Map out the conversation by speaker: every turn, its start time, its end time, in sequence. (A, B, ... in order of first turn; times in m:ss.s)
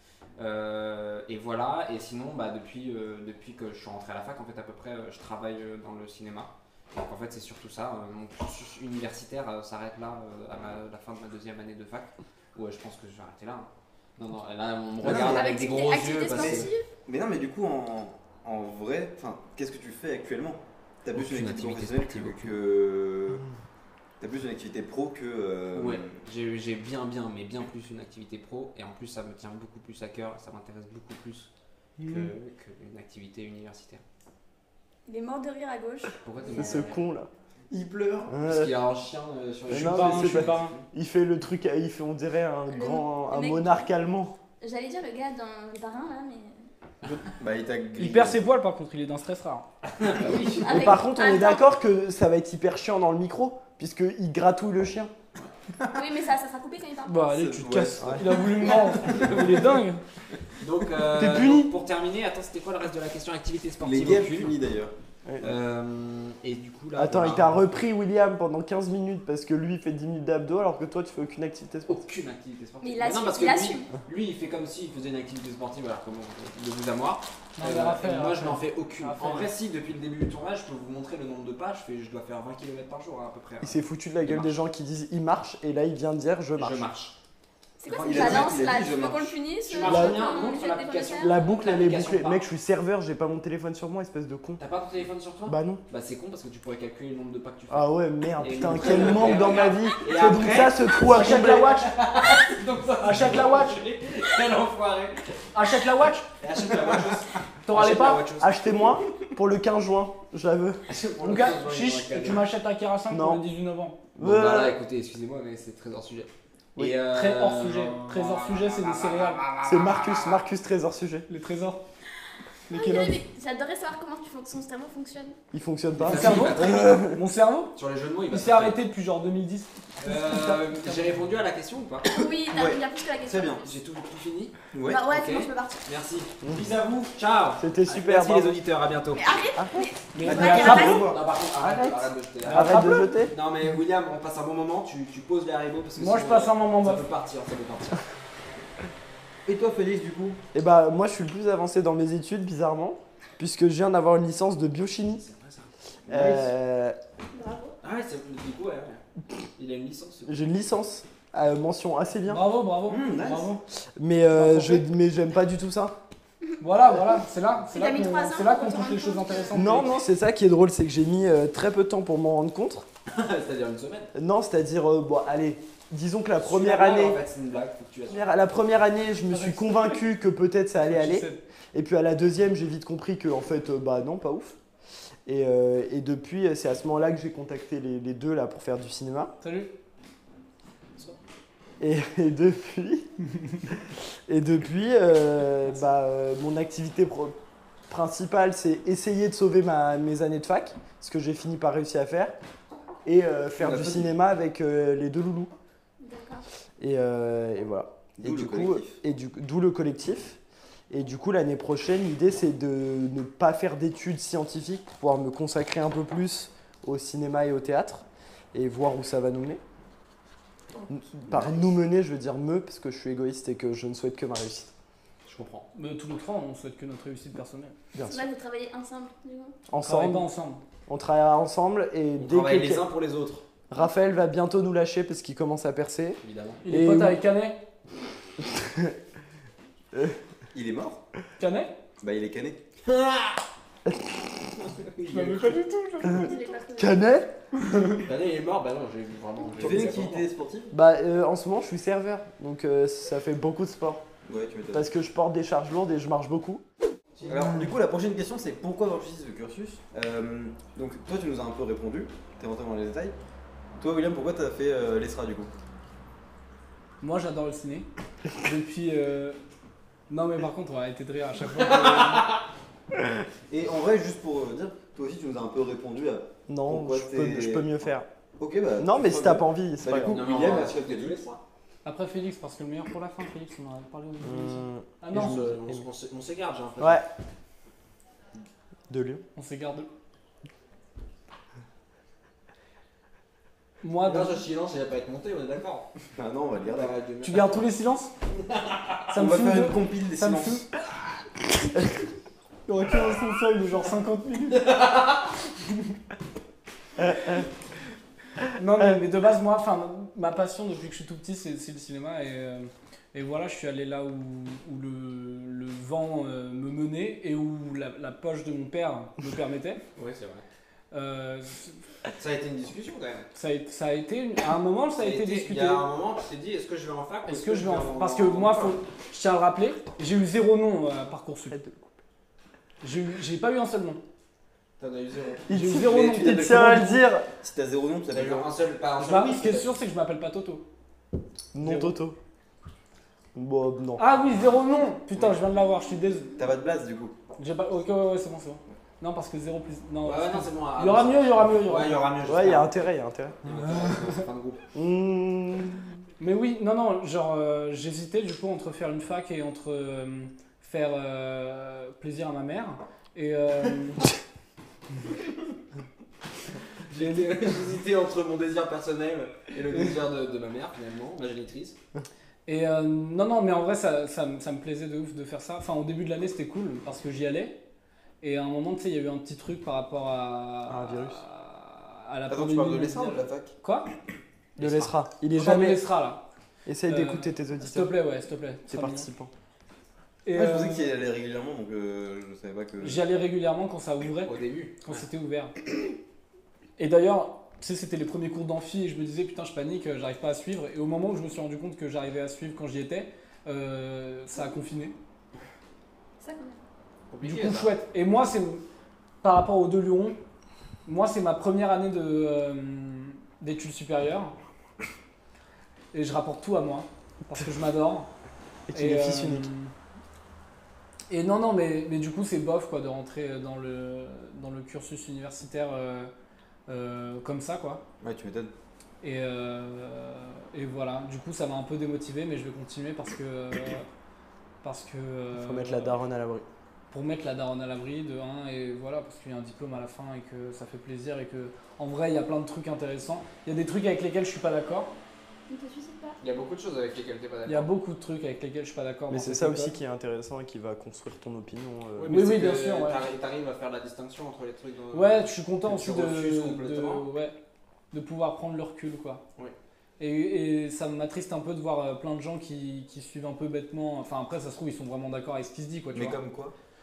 0:00.4-0:16.7 A
0:15.0-0:16.9 B
0:15.0-0:15.6 C
0:16.3-0:23.4 C
0:21.1-0:22.6 A
0:24.2-0:26.2 C
0:25.7-0:31.5 A
0:32.0-0:32.3 D
0:32.0-0:34.0 A
0:35.1-0:36.9 B
0:36.2-0:37.0 A
0:36.5-0:37.3 D
0:37.7-0:40.8 A
0:38.3-0:38.7 D
0:39.7-0:44.3 D
0:39.7-0:40.8 E
0:42.7-0:43.9 B
0:44.6-0:46.6 B
0:47.4-0:48.4 C
0:48.0-0:49.6 E
0:49.9-0:51.0 A
0:50.6-0:51.6 B
0:50.6-0:55.1 D
0:55.9-0:57.3 B
0:57.1-1:00.0 E
0:57.3-0:58.7 C
0:58.0-0:58.3 D
1:00.6-1:04.5 A
1:01.1-1:01.7 D
1:03.8-1:04.9 C
1:05.4-1:07.6 A
1:06.9-1:12.0 D
1:11.9-1:24.6 A
1:12.8-1:13.9 B
1:17.6-1:19.5 E
1:23.6-1:26.9 D
1:26.6-1:27.2 A
1:27.8-1:31.4 B
1:27.9-1:29.4 C
1:28.1-1:28.5 A
1:29.7-1:32.4 A
1:29.8-1:30.4 D
1:31.2-1:34.6 D
1:34.6-1:45.3 A
1:35.5-1:35.8 D
1:37.7-1:41.8 D
1:41.0-1:41.9 E
1:43.0-1:43.8 E
1:45.5-1:46.2 E
1:46.4-1:48.5 A
1:47.6-1:48.2 E
1:48.4-1:50.8 D
1:50.9-1:52.4 A
1:51.2-1:54.0 E
1:53.1-1:53.4 D
1:54.1-1:54.8 D
1:54.2-2:00.4 A
1:57.0-1:59.4 E
1:59.6-2:01.3 D
2:01.3-2:01.8 E
2:02.7-2:03.2 E
2:02.7-2:05.4 B
2:05.5-2:07.2 D
2:06.0-2:06.9 A
2:06.1-2:07.7 E
2:07.8-2:08.8 A
2:08.3-2:11.1 E
2:10.0-2:12.3 A
2:12.0-2:13.7 B
2:12.5-2:13.6 C
2:13.6-2:14.6 A
2:14.7-2:15.1 C
2:14.8-2:15.8 B
2:15.1-2:19.3 A
2:17.6-2:18.6 D
2:19.1-2:21.1 B
2:20.1-2:21.0 E
2:20.2-2:21.2 C
2:20.5-2:28.0 A
2:21.6-2:23.3 D
2:22.4-2:23.1 E
2:26.0-2:27.0 E
2:29.4-2:30.4 C
2:30.5-2:35.2 D
2:35.1-2:35.7 A
2:36.1-2:36.5 C
2:36.1-2:37.0 D
2:37.3-2:37.7 B
2:37.8-2:39.0 A
2:39.6-2:40.5 A
2:40.2-2:42.5 D
2:42.3-2:43.6 E
2:42.8-2:43.5 C
2:44.0-2:46.0 D
2:44.3-2:44.9 E
2:46.6-2:50.0 E
2:47.7-2:49.6 B
2:49.5-2:52.8 D
2:53.1-2:54.1 A
2:54.1-2:57.2 D
2:56.4-2:58.3 A
2:58.1-3:04.6 D
2:59.3-3:00.0 E
3:00.8-3:01.4 E
3:05.2-3:09.3 D
3:09.4-3:09.7 E
3:11.8-3:13.1 D
3:13.7-3:17.4 D
3:17.9-3:22.3 D
3:23.0-3:25.5 D
3:23.6-3:24.1 C
3:26.0-3:26.4 B
3:26.8-3:30.4 D
3:28.2-3:29.0 C
3:30.9-3:39.6 D
3:40.9-3:44.7 D
3:45.2-3:45.7 A
3:45.7-3:47.8 E
3:47.9-3:48.2 D
3:48.0-3:49.6 B
3:49.7-3:50.3 D
3:49.8-3:50.6 E
3:50.9-3:52.8 D
3:52.2-3:53.4 A
3:53.7-3:57.2 D
3:56.2-3:56.6 A
3:56.6-3:57.6 E
3:58.5-3:58.9 D
4:00.5-4:01.0 C
4:01.4-4:01.7 E
4:02.0-4:02.6 C
4:02.8-4:03.4 A
4:04.8-4:05.7 A
4:05.1-4:06.3 E
4:06.0-4:07.2 B
4:06.8-4:07.3 D
4:08.0-4:10.2 A
4:09.6-4:10.7 C
4:10.7-4:14.0 D
4:14.2-4:14.9 C
4:14.7-4:16.6 D
4:17.2-4:23.2 C
4:23.8-4:25.5 C
4:27.0-4:27.9 E
4:28.4-4:29.4 E
4:30.1-4:32.3 E
4:31.6-4:32.4 A
4:33.5-4:37.9 C
4:36.5-4:38.1 D
4:38.4-4:41.2 C
4:38.8-4:40.2 D
4:40.0-4:41.4 A
4:41.8-4:45.5 E
4:44.2-4:44.9 D
4:45.1-4:47.0 A
4:46.8-4:47.0 D
4:48.9-4:49.2 D
4:49.4-4:49.9 E
4:53.8-4:54.4 E
4:54.0-4:55.9 A
4:56.2-4:56.9 C
4:56.6-4:57.6 A
4:57.2-4:58.1 E
4:58.4-4:59.0 A
4:59.1-5:00.6 E
4:59.1-5:00.6 C
5:02.7-5:04.7 E
5:04.5-5:05.3 A
5:08.5-5:19.8 E
5:20.0-5:20.4 A
5:20.9-5:21.8 E
5:22.2-5:23.3 A
5:23.3-5:25.8 E
5:25.0-5:28.8 A
5:27.3-5:31.6 E
5:31.5-5:32.0 D
5:32.8-5:34.0 E
5:34.8-5:35.9 A
5:35.5-5:37.3 D
5:35.5-5:37.0 E
5:36.1-5:36.8 C
5:37.4-5:38.5 C
5:38.1-5:39.7 A
5:39.0-5:40.6 E
5:41.5-5:42.2 D
5:41.6-5:42.0 E
5:43.3-5:44.0 D
5:44.0-5:46.3 E
5:46.4-5:47.1 C
5:47.4-5:52.0 E
5:50.0-5:52.9 A
5:52.2-5:53.4 D
5:53.4-5:54.6 A
5:54.7-5:55.9 D
5:56.2-6:04.0 E
6:06.9-6:11.8 A
6:07.0-6:07.4 E
6:12.4-6:17.6 E
6:18.2-6:23.9 E
6:20.7-6:21.2 D
6:22.3-6:23.5 C
6:24.6-6:25.8 D
6:24.6-6:24.9 A
6:25.3-6:26.2 E
6:26.6-6:28.0 D
6:26.9-6:29.1 E
6:28.7-6:29.3 D
6:30.2-6:30.9 E
6:30.3-6:33.0 C
6:32.8-6:35.5 E
6:34.2-6:35.0 A
6:36.8-6:44.9 E
6:46.2-6:46.6 B
6:47.1-6:47.7 A
6:47.2-6:48.6 E
6:49.2-6:50.2 E
6:50.8-6:54.3 E
6:55.9-6:58.1 E
6:58.7-6:59.5 D
6:58.7-6:59.7 E
7:01.1-7:06.1 E
7:06.7-7:07.8 E
7:08.0-7:08.5 C
7:09.0-7:13.8 E
7:14.6-7:16.0 E
7:15.3-7:16.4 D
7:16.9-7:24.9 E
7:25.5-7:26.2 B
7:26.2-7:27.7 A
7:27.4-7:29.8 E
7:29.1-7:32.2 D
7:32.0-7:37.1 A
7:32.1-7:33.0 E
7:34.9-7:37.4 E
7:37.9-7:39.2 E
7:40.0-7:46.2 E
7:45.9-7:46.5 C